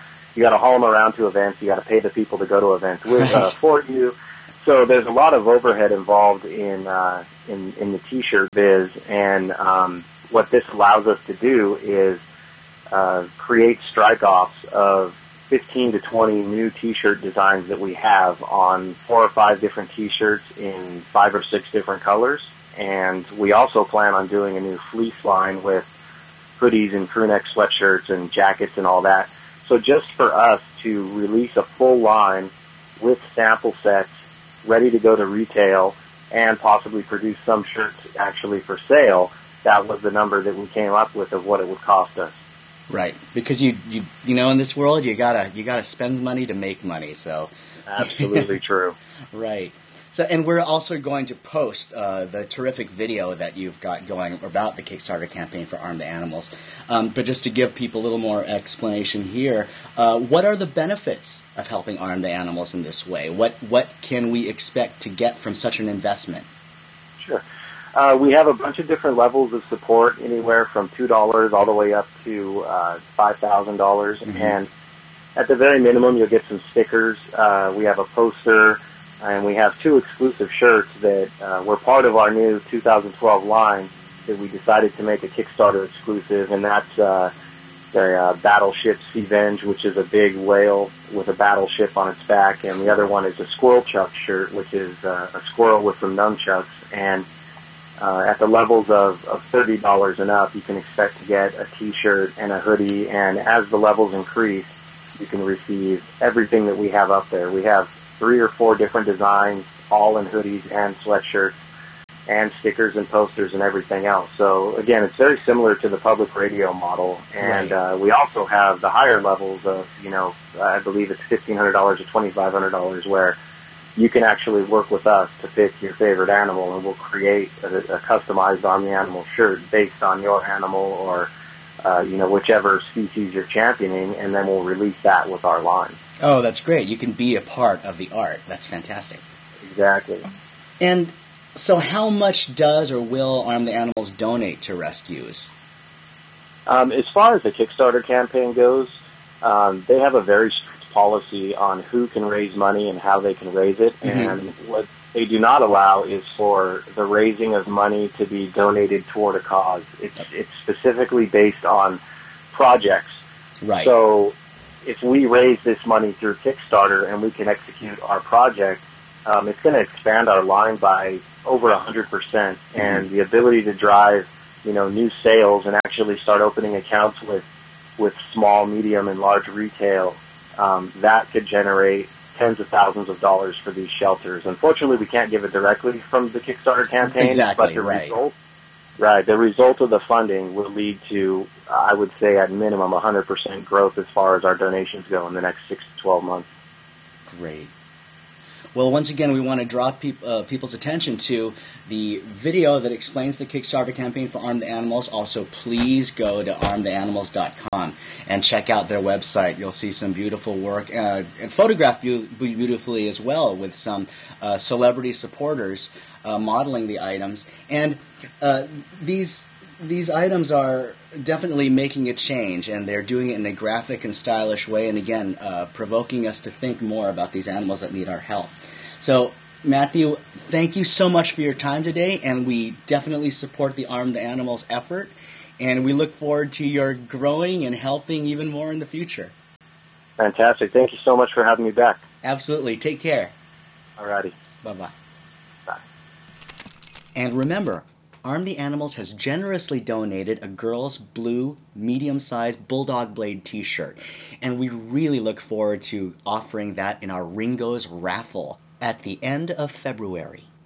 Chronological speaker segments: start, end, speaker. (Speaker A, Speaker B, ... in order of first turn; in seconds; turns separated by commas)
Speaker A: 0.3-12.2, Speaker A: 12.9-25.9, Speaker A: 26.6-34.1, Speaker A: 34.6-42.3, Speaker B: 42.9-48.4, Speaker A: 47.9-49.0, Speaker B: 49.3-66.5, Speaker A: 67.2-67.4, Speaker A: 67.9-74.7, Speaker B: 74.3-74.5, Speaker A: 75.3-87.3, Speaker A: 87.9-97.2, Speaker A: 98.0-111.5, Speaker A: 112.3-123.4, Speaker B: 117.4-117.8, Speaker A: 124.0-131.3, Speaker A: 131.8-136.0, Speaker B: 136.2-139.2, Speaker A: 139.6-140.3, Speaker B: 140.8-145.5, Speaker A: 146.7-162.0, Speaker B: 154.0-154.3, Speaker A: 162.5-163.2, Speaker B: 163.6-163.9, Speaker A: 163.8-177.4, Speaker A: 178.0-188.3, Speaker B: 187.1-188.1, Speaker A: 189.0-196.5, Speaker B: 197.3-197.7, Speaker B: 198.7-239.3, Speaker A: 240.2-242.0, Speaker B: 242.2-243.3, Speaker A: 244.0-244.3, Speaker B: 244.6-244.9, Speaker B: 247.2-260.5